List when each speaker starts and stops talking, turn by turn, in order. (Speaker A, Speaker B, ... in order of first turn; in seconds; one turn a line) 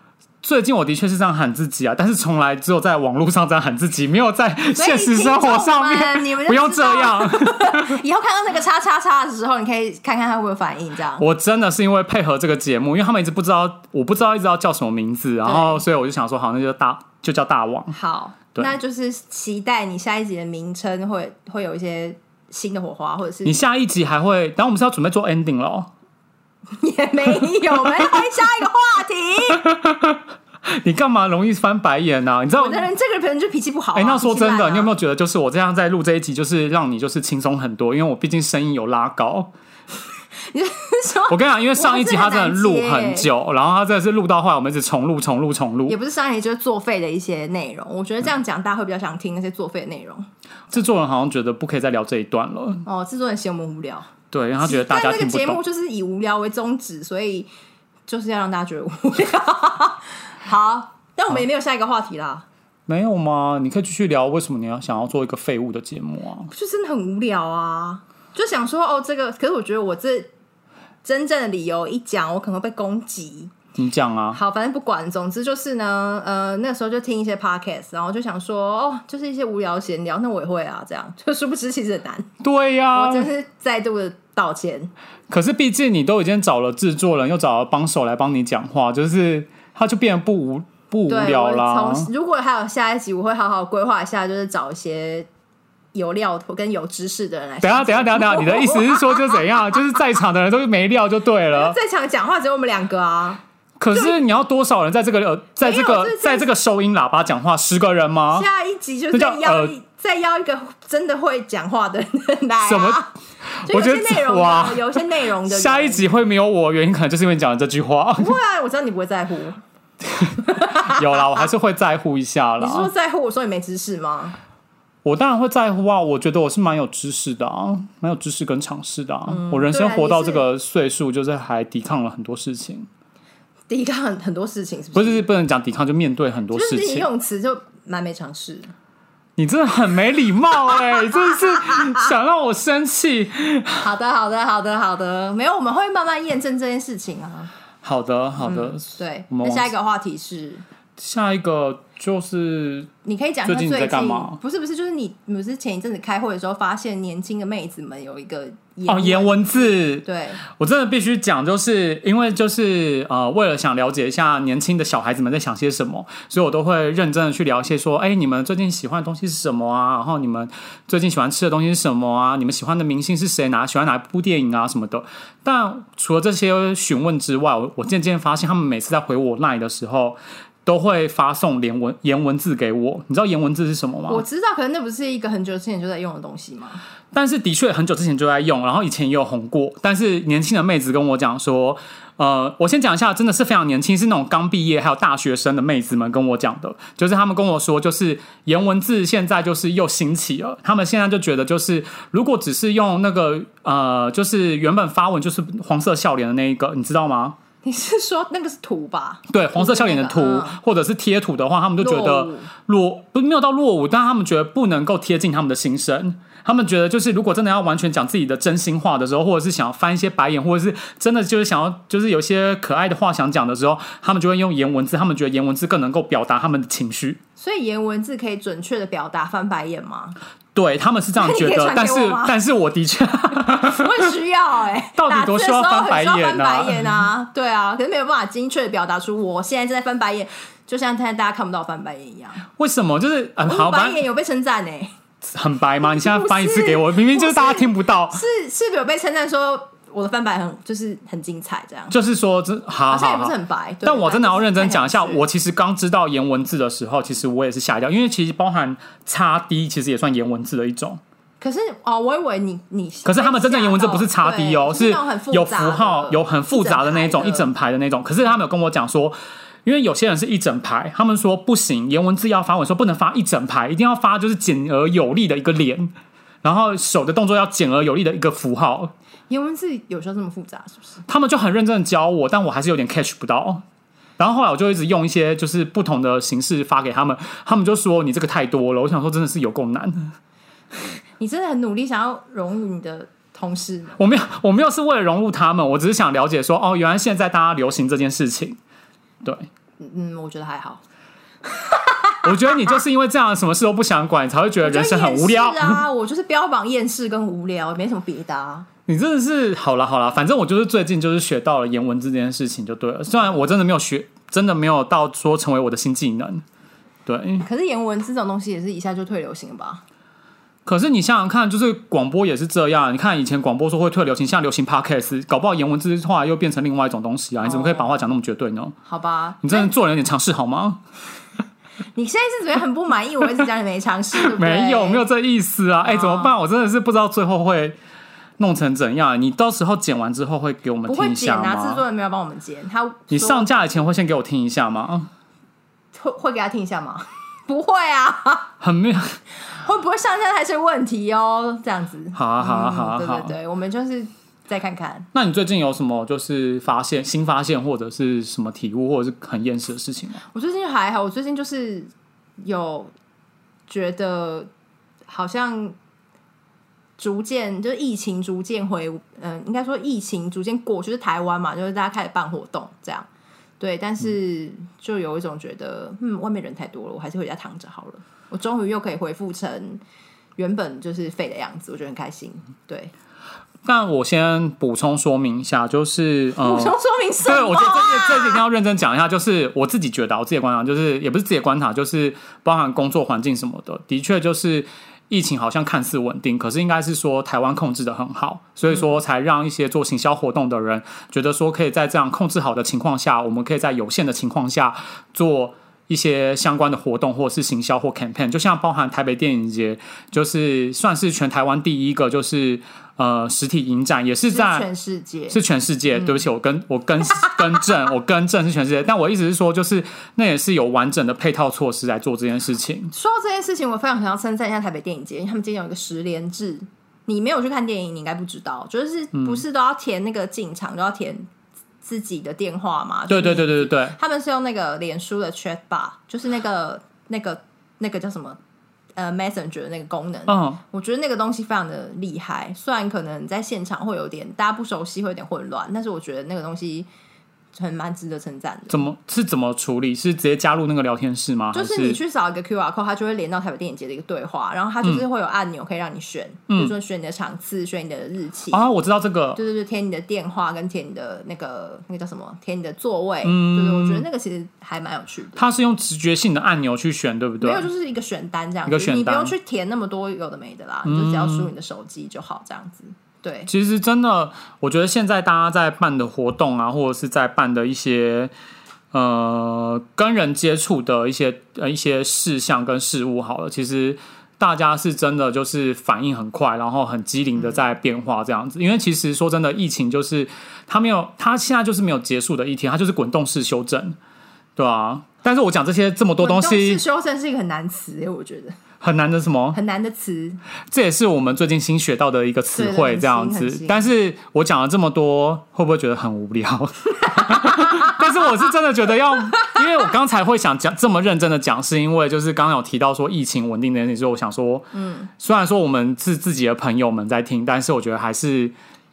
Speaker A: 0.4-8.0
Speaker B: 4.8-11.2
Speaker A: 11.2-17.9
Speaker B: 15.4-15.8
Speaker B: 17.9-23.6
Speaker A: 23.4-25.9
Speaker B: 26.8-29.6
Speaker A: 29.5-32.9
Speaker B: 32.5-34.9
Speaker A: 33.9-39.5
Speaker B: 40.4-43.3
Speaker A: 41.3-46.0
Speaker B: 45.9-50.3
Speaker A: 50.7-52.9
Speaker B: 52.9-54.1
Speaker A: 54.3-55.6
Speaker B: 54.6-57.5
Speaker B: 58.1-62.5
Speaker A: 62.9-66.5
Speaker B: 66.5-70.3
Speaker B: 71.0-73.5
Speaker A: 73.8-74.4
Speaker B: 74.3-82.3
Speaker A: 82.4-83.3
Speaker B: 83.0-84.9
Speaker A: 85.3-92.1
Speaker B: 91.1-95.3
Speaker B: 95.9-99.8
Speaker A: 97.6-101.8
Speaker B: 101.5-104.2
Speaker A: 103.8-108.5
Speaker B: 105.6-106.5
Speaker B: 108.3-113.1
Speaker A: 109.1-109.8
Speaker A: 112.7-113.0
Speaker A: 113.6-118.4
Speaker B: 113.7-116.1
Speaker B: 118.2-119.6
Speaker A: 120.1-122.9
Speaker B: 120.4-121.5
Speaker B: 122.6-124.4
Speaker A: 125.0-132.9
Speaker B: 129.3-130.4
Speaker B: 133.7-135.3
Speaker A: 134.9-137.1
Speaker B: 136.5-138.7
Speaker A: 139.4-143.8
Speaker B: 141.1-142.1
Speaker B: 143.8-147.5
Speaker A: 147.8-149.7
Speaker B: 148.4-150.6
Speaker A: 151.0-152.9
Speaker B: 153.0-160.4
Speaker A: 153.4-154.4
Speaker A: 158.9-184.2
Speaker B: 184.1-186.8
Speaker A: 187.1-207.4
Speaker B: 207.6-210.6
Speaker A: 209.3-227.2
Speaker B: 211.8-212.5
Speaker B: 227.4-230.2
Speaker A: 230.6-234.1
Speaker B: 231.2-232.3
Speaker B: 233.6-242.5
Speaker A: 234.9-237.0
Speaker A: 242.6-244.0
Speaker B: 243.4-244.9
Speaker A: 245.2-248.2
Speaker B: 245.8-251.9
Speaker A: 251.9-261.0
Speaker B: 252.9-255.2
Speaker B: 261.4-267.5
Speaker A: 263.1-275.9
Speaker A: 276.4-278.9
Speaker B: 279.3-281.0
Speaker A: 281.1-283.6
Speaker A: 284.2-290.1
Speaker B: 291.2-294.0
Speaker A: 294.0-298.6
Speaker A: 299.2-299.5
Speaker B: 299.8-300.8
Speaker B: 301.4-302.7
Speaker A: 302.2-305.8
Speaker B: 304.6-308.7
Speaker A: 308.9-316.4
Speaker A: 317.1-317.5
Speaker B: 317.4-319.8
Speaker A: 320.7-328.8
Speaker B: 327.4-328.0
Speaker B: 328.9-329.7
Speaker A: 329.4-330.8
Speaker B: 331.9-335.1
Speaker A: 334.1-337.8
Speaker B: 335.8-336.3
Speaker A: 338.4-341.8
Speaker B: 340.9-343.7
Speaker A: 343.1-345.1
Speaker B: 345.9-348.5
Speaker A: 348.6-349.2
Speaker B: 349.5-355.1
Speaker A: 352.1-353.4
Speaker A: 355.1-360.2
Speaker B: 360.3-362.9
Speaker B: 363.7-364.5
Speaker B: 365.1-365.8
Speaker B: 367.0-373.1
Speaker B: 373.6-379.8
Speaker B: 380.4-382.9
Speaker A: 383.6-414.7
Speaker B: 386.4-388.4
Speaker B: 414.3-415.4
Speaker A: 415.3-422.9
Speaker B: 417.2-417.6
Speaker B: 422.9-431.3
Speaker A: 429.1-429.4
Speaker B: 431.8-438.4
Speaker A: 433.1-434.0
Speaker B: 439.0-446.9
Speaker A: 440.3-440.6
Speaker B: 447.5-448.8
Speaker A: 448.7-452.0
Speaker B: 451.5-458.6
Speaker A: 458.5-459.4
Speaker B: 459.4-465.4
Speaker A: 463.2-464.1
Speaker A: 465.4-467.7
Speaker B: 467.4-473.5
Speaker A: 468.7-469.3
Speaker A: 470.9-471.5
Speaker A: 473.5-478.3
Speaker A: 478.9-494.0
Speaker A: 494.6-496.8
Speaker B: 496.2-498.6
Speaker A: 498.8-499.6
Speaker B: 499.5-500.4
Speaker A: 500.7-518.5
Speaker B: 502.6-503.9
Speaker B: 507.2-508.1
Speaker B: 514.7-515.1